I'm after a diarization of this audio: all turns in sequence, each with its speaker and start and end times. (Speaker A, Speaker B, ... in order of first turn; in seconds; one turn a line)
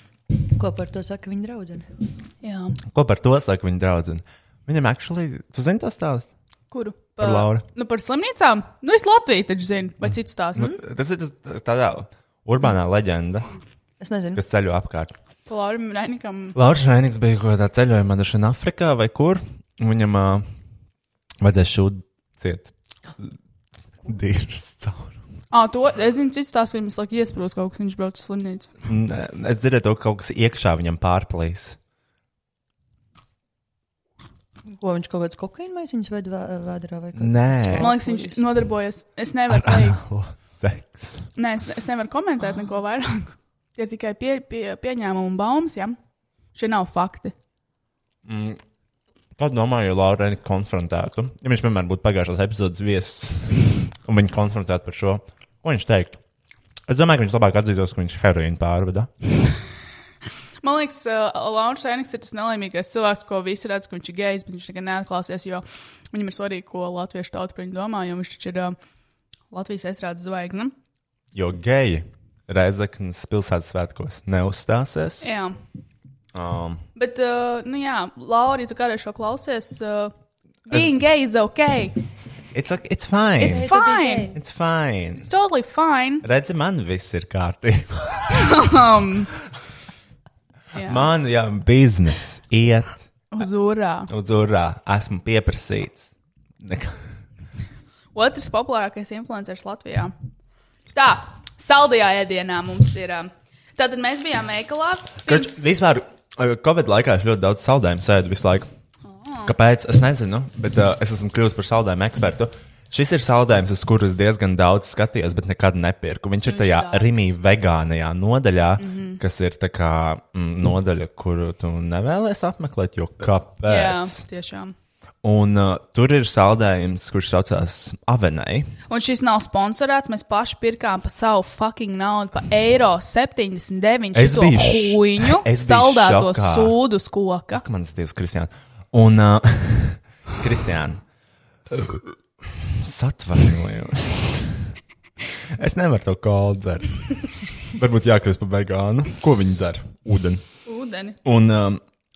Speaker A: 0.5-1.9
Speaker B: 2.4-2.8
Speaker C: 2.9-6.3
Speaker B: 6.7-10.7
Speaker C: 7.2-7.6
Speaker C: 10.5-13.4
Speaker A: 14.0-14.4
Speaker C: 14.3-15.1
Speaker B: 15.5-16.6
Speaker C: 16.5-20.4
Speaker C: 21.4-23.3
Speaker C: 24.0-25.2
Speaker B: 25.5-28.7
Speaker C: 28.8-31.8
Speaker A: 34.7-38.4
Speaker C: 37.1-37.9
Speaker B: 37.8-40.0
Speaker C: 39.5-41.3
Speaker B: 41.4-46.0
Speaker B: 46.5-47.3
Speaker C: 48.2-48.6
Speaker C: 49.4-56.2
Speaker C: 56.9-59.1
Speaker B: 60.6-68.8
Speaker B: 69.5-70.7
Speaker C: 71.3-75.3
Speaker B: 75.2-75.6
Speaker C: 76.3-76.8
Speaker B: 77.0-80.1
Speaker B: 80.7-82.0
Speaker C: 82.5-83.7
Speaker B: 83.4-84.3
Speaker A: 83.4-84.4
Speaker C: 84.3-85.3
Speaker B: 85.2-86.2
Speaker C: 86.2-88.6
Speaker B: 88.3-89.3
Speaker B: 90.7-91.1
Speaker C: 90.8-93.1
Speaker B: 93.3-94.1
Speaker C: 94.1-97.0
Speaker B: 98.1-100.1
Speaker B: 100.9-105.6
Speaker C: 105.2-108.7
Speaker B: 109.0-109.5
Speaker C: 109.5-124.2
Speaker B: 116.4-117.3
Speaker B: 118.8-119.2
Speaker B: 123.7-124.7
Speaker C: 125.2-128.7
Speaker B: 128.9-137.6
Speaker C: 134.1-136.8
Speaker C: 137.5-141.0
Speaker C: 141.7-144.7
Speaker C: 145.5-150.4
Speaker B: 150.7-151.2
Speaker C: 151.2-151.8